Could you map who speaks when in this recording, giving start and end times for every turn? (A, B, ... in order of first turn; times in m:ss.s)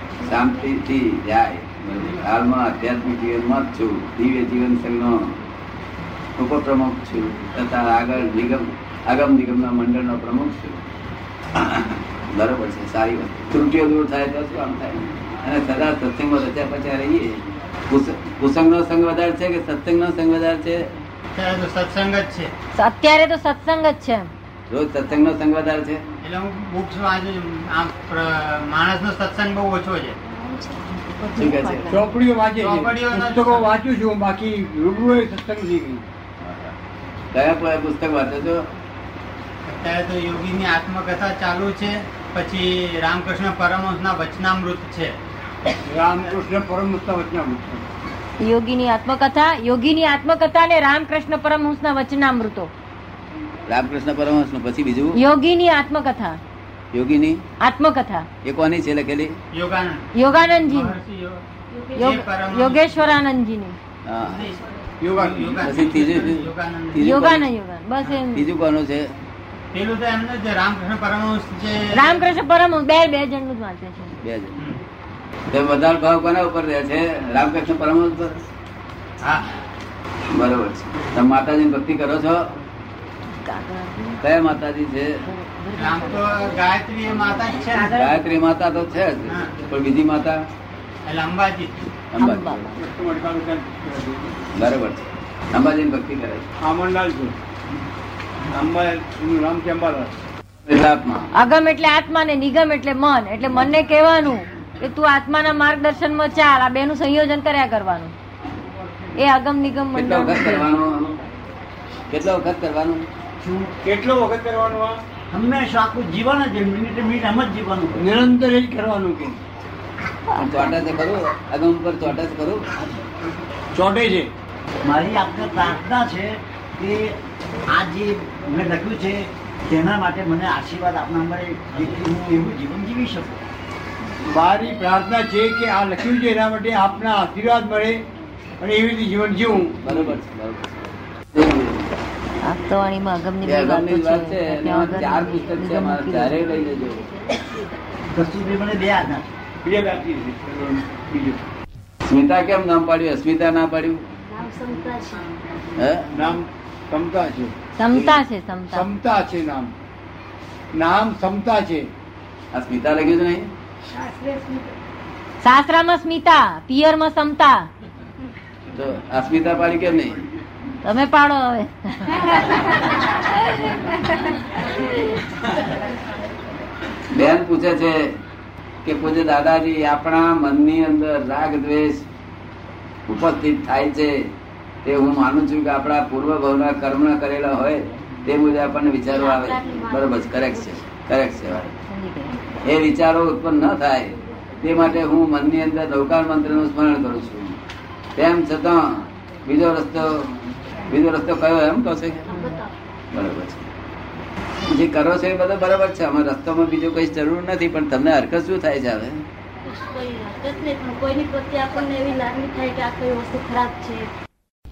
0:00.2-0:05.3 A
0:06.4-0:10.8 A
0:11.6-0:20.9 A
0:21.3-0:22.5 B
0:22.8-0:24.3 C
0:24.7-0:26.0 A
0:26.2-0:30.2 B
0:31.1-0:32.0 C
0:31.3-0:32.0 A
0:31.9-0:36.0 D
0:32.6-0:33.7 B
0:36.4-0:36.7 A
0:37.3-0:38.6 A
0:39.7-0:45.1 B
0:45.8-0:47.8 D
0:48.4-0:52.7 C
0:53.7-0:55.2 A
0:55.1-0:56.4 C
0:56.9-0:57.4 A
0:57.6-0:58.3 C
0:58.4-0:59.4 A
0:59.5-1:02.9 B
1:00.1-1:00.9 C
1:02.0-1:03.8 C
1:04.0-1:04.5 A
1:04.2-1:04.6 B
1:05.0-1:05.6 D
1:05.1-1:07.0 B
1:05.6-1:07.5 A
1:07.0-1:08.4 C
1:08.3-1:09.1 A
1:09.7-1:12.0 B
1:11.9-1:14.1 C
1:14.2-1:14.6 A
1:15.5-1:18.4 A
1:19.2-1:19.5 B
1:20.3-1:22.4 A
1:23.4-1:24.2 C
1:24.2-1:25.1 A
1:25.3-1:26.5 C
1:25.8-1:28.0 B
1:27.7-1:28.0 C
1:27.8-1:30.4 A
1:31.0-1:31.7 B
1:32.1-1:32.7 A
1:32.2-1:32.8 C
1:32.8-1:34.3 D
1:34.6-1:36.4 A
1:36.6-1:37.3 D
1:38.5-1:40.1 D
1:40.7-1:41.3 A
1:41.4-1:48.1 C
1:49.2-1:50.7 C
1:49.9-1:51.2 A
1:52.1-1:53.0 A
1:53.4-1:53.7 E
1:53.8-1:55.0 D
1:55.3-1:58.0 E
1:58.0-1:59.4 D
2:00.3-2:02.6 A
2:00.4-2:00.7 C
2:02.8-2:03.0 E
2:03.7-2:04.3 D
2:04.8-2:07.1 E
2:07.7-2:13.4 E
2:14.2-2:18.0 D
2:18.6-2:20.1 D
2:19.8-2:21.9 A
2:22.4-2:26.4 C
2:23.4-2:27.0 A
2:28.1-2:29.3 E
2:29.6-2:31.4 D
2:32.0-2:34.0 A
2:34.3-2:35.2 F
2:35.8-2:36.1 A
2:36.1-2:37.5 D
2:37.8-2:38.8 C
2:37.9-2:38.2 A
2:38.7-2:39.7 D
2:40.7-2:41.9 D
2:42.5-2:43.5 A
2:43.9-2:44.7 F
2:45.4-2:47.7 C
2:48.7-2:50.2 A
2:50.8-2:52.5 C
2:57.1-2:58.0 A
2:58.8-3:02.0 A
3:03.1-3:04.2 A
3:04.8-3:11.7 A
3:09.1-3:10.7 F
3:11.9-3:12.3 C
3:12.6-3:17.6 A
3:18.2-3:22.2 A
3:22.3-3:22.6 C
3:22.4-3:22.7 F
3:23.1-3:23.7 A
3:24.6-3:29.2 A
3:29.7-3:34.1 F